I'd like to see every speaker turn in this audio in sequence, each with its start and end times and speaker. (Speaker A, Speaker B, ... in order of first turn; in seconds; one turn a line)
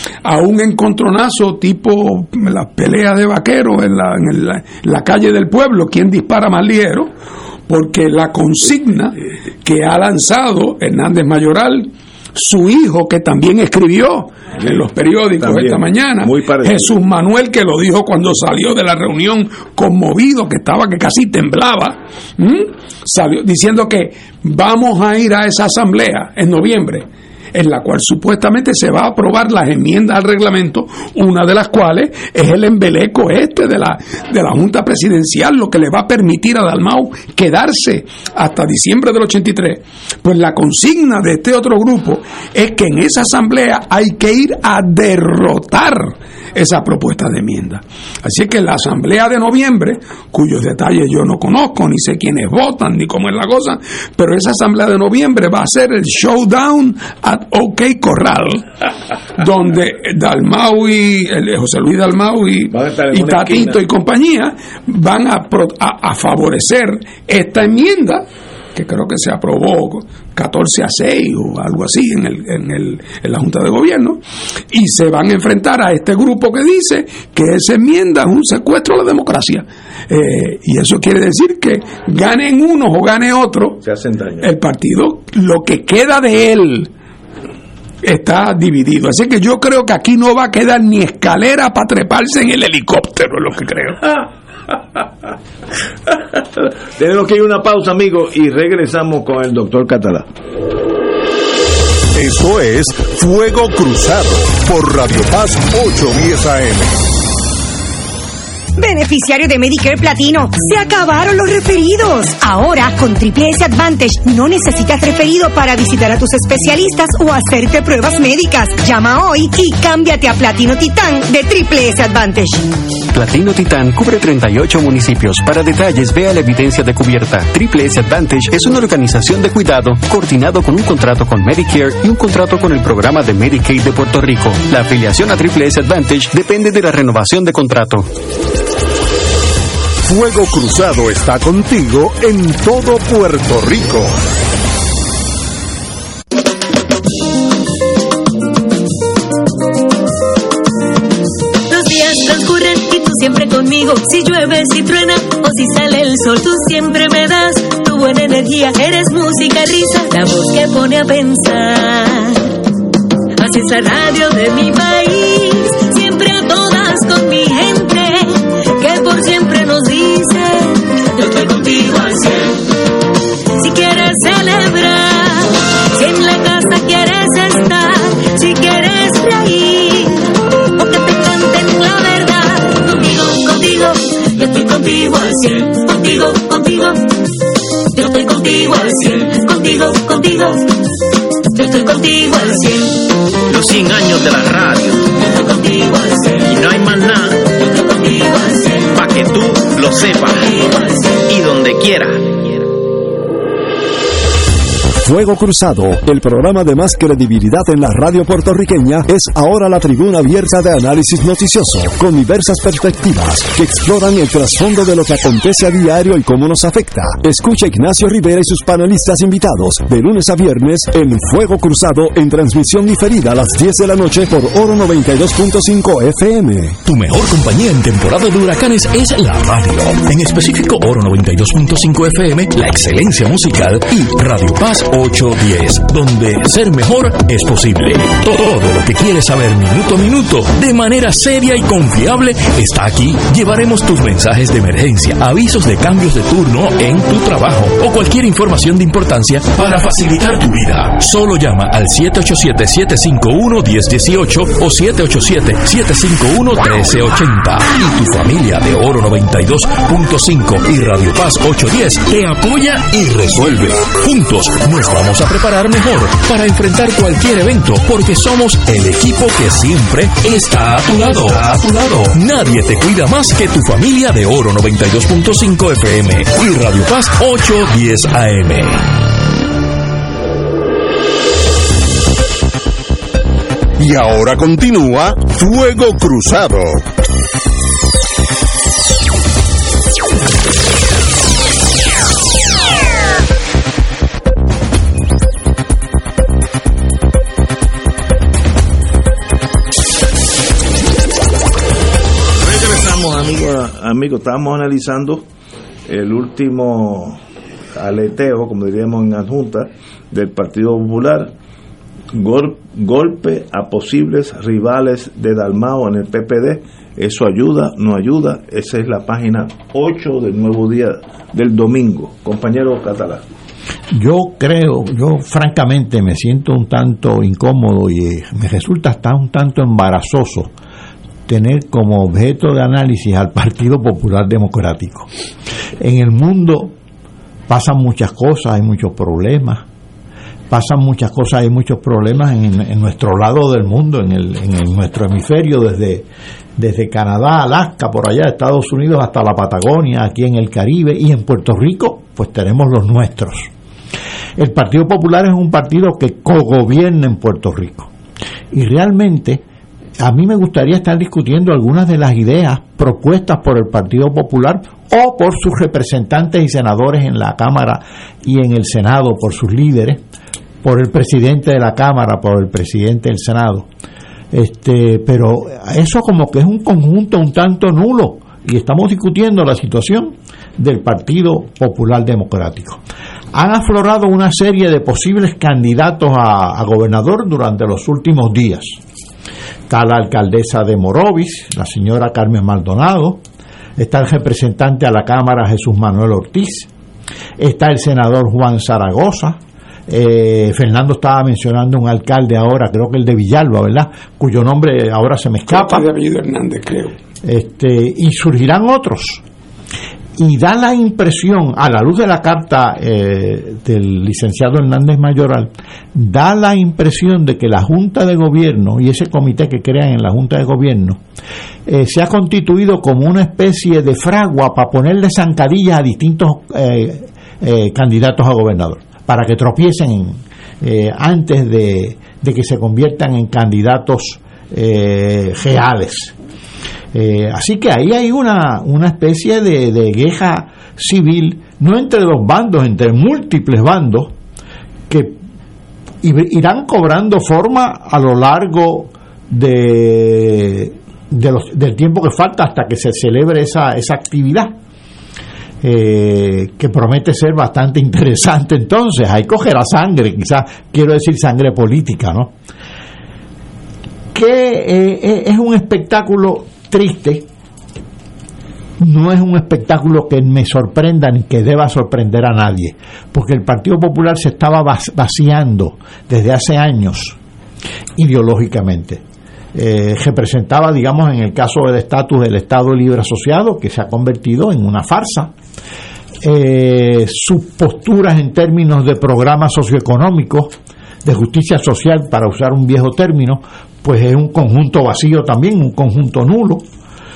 Speaker A: 0.2-7.1
Speaker A: 7.7-58.6
Speaker B: 15.4-16.9
Speaker A: 59.4-68.2
Speaker B: 62.7-63.8
Speaker A: 68.7-74.2
Speaker A: 74.7-83.8
Speaker B: 83.8-84.5
Speaker A: 84.4-86.9
Speaker A: 88.0-94.1
Speaker B: 96.3-100.2
Speaker C: 102.1-107.0
Speaker D: 108.8-122.7
Speaker E: 123.1-138.1
Speaker C: 140.0-144.2
Speaker F: 151.7-162.5
Speaker F: 163.4-172.6
Speaker F: 173.6-187.2
Speaker F: 187.9-190.7
Speaker F: 191.5-192.9
Speaker G: 193.5-195.1
Speaker F: 195.4-196.2
Speaker G: 196.3-197.5
Speaker F: 197.7-198.7
Speaker G: 198.8-202.7
Speaker H: 205.0-226.8
Speaker I: 226.8-278.9
Speaker C: 283.8-286.8
Speaker B: 302.4-305.2
Speaker B: 305.9-307.2
Speaker B: 307.8-311.3
Speaker B: 312.1-323.2
Speaker J: 323.9-330.5
Speaker J: 331.3-335.1
Speaker J: 335.8-336.7
Speaker J: 337.5-339.6
Speaker J: 340.5-353.5
Speaker J: 354.4-357.9
Speaker J: 358.5-359.4
Speaker J: 360.0-370.0
Speaker J: 370.6-373.7
Speaker J: 374.3-382.8
Speaker J: 383.3-388.8
Speaker J: 389.7-393.2
Speaker J: 393.8-396.7
Speaker J: 397.4-405.9
Speaker A: 405.5-406.9
Speaker J: 407.2-409.2
Speaker J: 410.2-421.0
Speaker J: 421.6-436.1
Speaker J: 436.9-444.1
Speaker J: 444.9-445.1
Speaker J: 446.0-454.5
Speaker J: 455.6-462.3
Speaker J: 464.1-467.2
Speaker J: 468.8-477.2
Speaker J: 477.9-479.0
Speaker J: 479.5-485.3
Speaker J: 486.2-490.5
Speaker J: 491.0-496.6